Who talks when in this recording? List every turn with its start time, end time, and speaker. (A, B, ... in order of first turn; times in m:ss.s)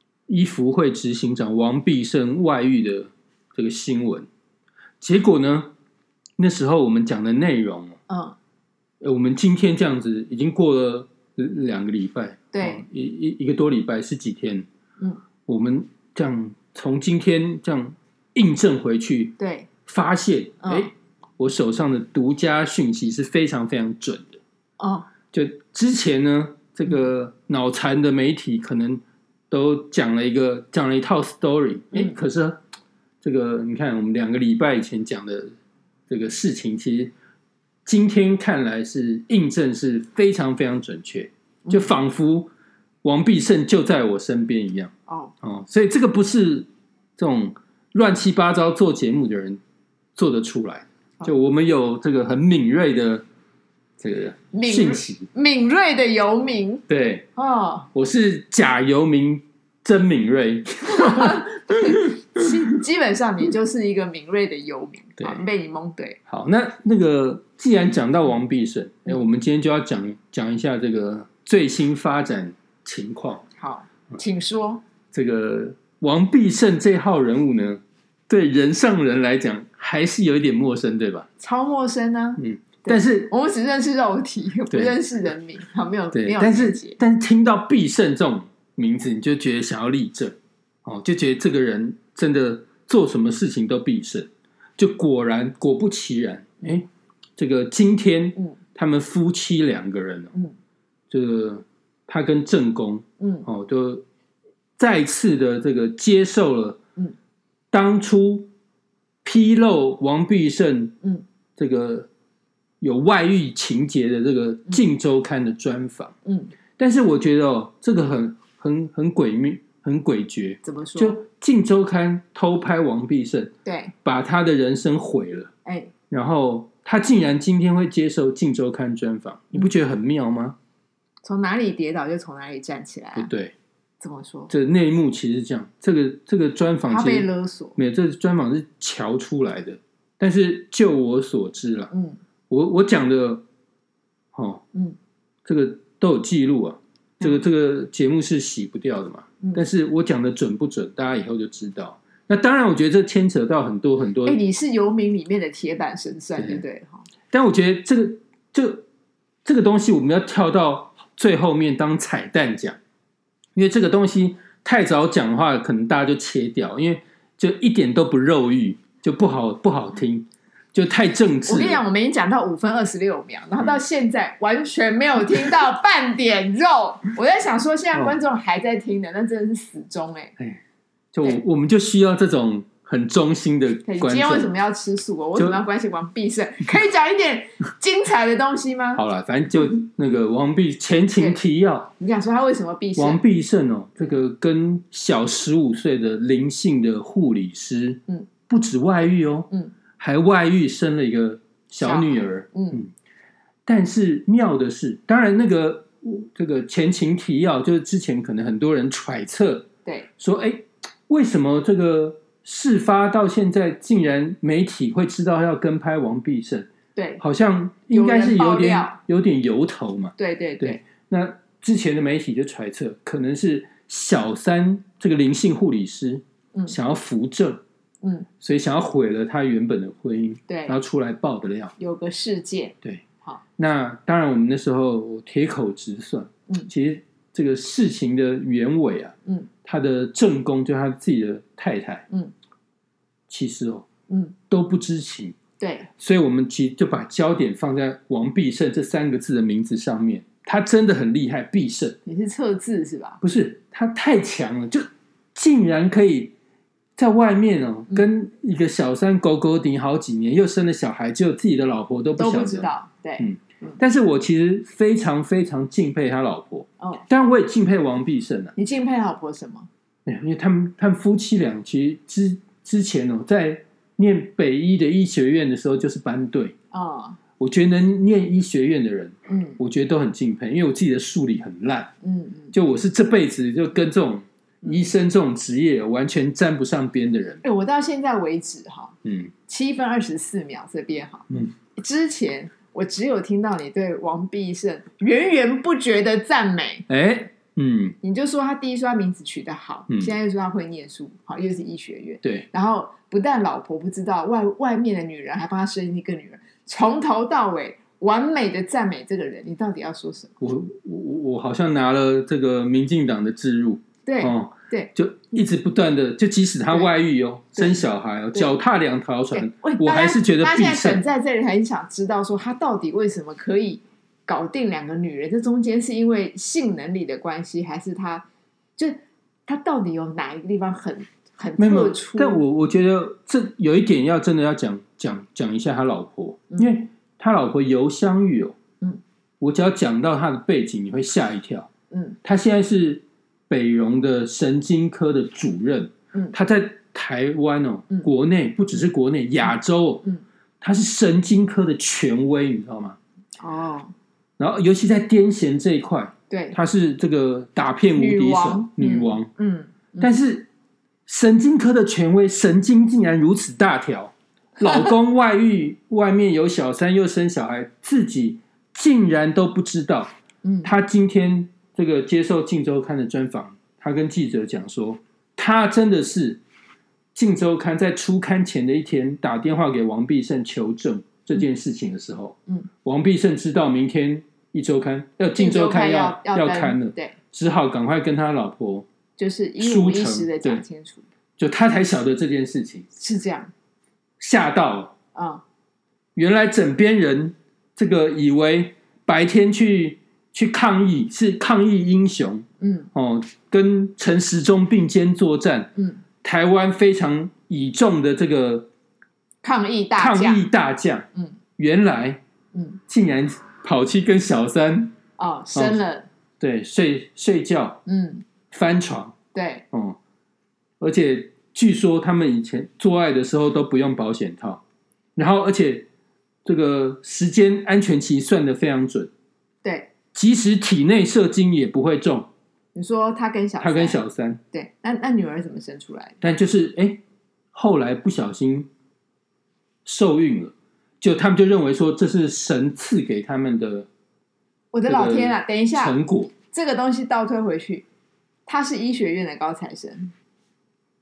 0:00.3-0:04.3 A
0:05.0-0:05.7 A
0:06.4-0:08.0 A
0:08.1-0:08.4 B
0:09.0-0:14.7 A
0:12.5-0:12.8 B
0:15.4-0:24.4 A
0:19.4-0:19.7 B
0:20.6-0:20.9 B
0:24.8-0:25.1 B
0:25.3-0:32.6 A
0:33.2-0:35.5 A
0:36.1-0:37.1 A
0:37.8-0:42.5 A
0:43.0-0:49.6 A
0:45.1-0:45.3 B
0:50.2-0:53.2 A
0:54.0-0:55.3 A
0:54.5-0:57.9 B
0:56.9-0:57.2 A
0:57.9-1:02.8 A
1:00.9-1:06.2 B
1:06.3-1:13.5 A
1:13.5-1:14.8 B
1:15.1-1:21.3 A
1:21.4-1:27.0 B
1:22.4-1:23.3 A
1:24.7-1:25.0 A
1:26.1-1:40.3 A
1:41.1-1:44.0 A
1:43.2-1:43.5 B
1:44.8-1:46.8 A
1:47.7-1:48.5 A
1:49.2-1:51.0 A
1:51.6-1:52.1 A
1:52.8-1:56.1 A
1:56.2-1:56.5 B
1:56.8-2:03.5 A
2:00.6-2:01.2 B
2:03.6-2:03.9 B
2:04.0-2:05.5 A
2:05.6-2:05.9 B
2:06.1-2:10.6 A
2:11.2-2:13.3 B
2:13.2-2:13.5 A
2:14.0-2:14.5 B
2:14.5-2:21.9 A
2:16.9-2:17.8 B
2:21.9-2:22.2 B
2:22.5-2:23.4 A
2:24.3-2:24.6 A
2:25.4-2:34.4 A
2:29.4-2:29.6 B
2:34.2-2:37.0 B
2:36.4-2:36.6 A
2:37.3-2:38.8 A
2:39.4-2:42.8 A
2:43.5-2:51.8 A
2:51.5-3:00.3 B
3:01.1-3:04.5 A
3:03.8-3:09.0 B
3:05.4-3:05.6 A
3:09.0-3:11.9 A
3:12.0-3:13.2 B
3:13.0-3:22.9 A
3:21.8-3:22.8 B
3:23.6-3:47.6 A
3:36.9-3:37.2 B
3:37.9-3:39.0 B
3:40.2-3:40.8 B
3:48.0-3:48.3 B
3:48.4-3:51.7 A
3:50.5-3:50.8 B
3:51.8-3:53.4 B
3:53.6-4:02.0 A
4:03.3-4:03.9 A
4:04.1-4:04.3 B
4:04.5-4:05.4 A
4:05.6-4:05.9 B
4:06.0-4:12.0 A
4:12.0-4:13.2 B
4:13.2-4:16.3 A
4:17.0-4:28.5 A
4:22.2-4:23.8 B
4:26.8-4:27.0 B
4:28.6-4:29.7 B
4:30.0-4:36.5 A
4:36.7-4:37.2 B
4:37.4-4:41.9 A
4:39.3-4:39.6 B
4:42.0-4:42.5 B
4:42.5-4:47.4 A
4:47.4-4:48.9 B
4:49.0-4:49.3 A
4:49.5-4:56.8 B
4:56.9-4:58.0 A
4:58.0-5:10.4 B
4:59.9-5:00.1 A
5:10.4-5:21.0 A
5:14.0-5:14.9 B
5:17.5-5:18.5 B
5:19.3-5:28.2 B
5:28.8-5:32.4 B
5:31.6-5:38.6 A
5:39.4-5:41.7 A
5:41.9-5:42.2 B
5:42.2-5:50.0 A
5:50.6-5:53.0 A
5:53.4-5:53.9 B
5:54.4-5:59.3 A
5:56.3-5:56.6 B
5:58.0-6:00.1 B
6:00.0-6:00.5 A
6:01.0-6:10.1 A
6:10.4-6:10.7 B
6:10.6-6:16.4 A
6:17.1-6:28.9 A
6:25.4-6:27.2 B
6:29.2-6:31.0 B
6:29.6-6:30.6 A
6:31.4-6:32.8 A
6:33.0-6:33.5 B
6:34.2-6:34.9 A
6:35.1-6:35.4 B
6:36.2-6:48.7 A
6:42.6-6:42.9 B
6:49.4-6:50.4 B
6:50.0-6:52.2 A
6:52.5-6:52.8 B
6:52.9-6:54.9 A
6:55.2-6:56.1 B
6:55.5-6:55.8 A
6:56.4-6:57.8 A
6:57.8-6:58.2 B
6:58.5-6:59.2 A
6:59.3-6:59.6 B
6:59.7-7:00.0 A
7:00.8-7:04.6 A
7:05.2-7:05.9 A
7:06.4-7:09.1 A
7:09.6-7:09.9 B
7:10.1-7:12.3 A
7:12.7-7:14.0 B
7:13.6-7:14.4 A
7:14.5-7:16.2 B
7:16.2-7:17.0 A
7:17.5-7:18.7 A
7:19.8-7:23.9 A
7:24.7-7:27.8 B
7:24.9-7:26.3 A
7:28.4-7:30.1 B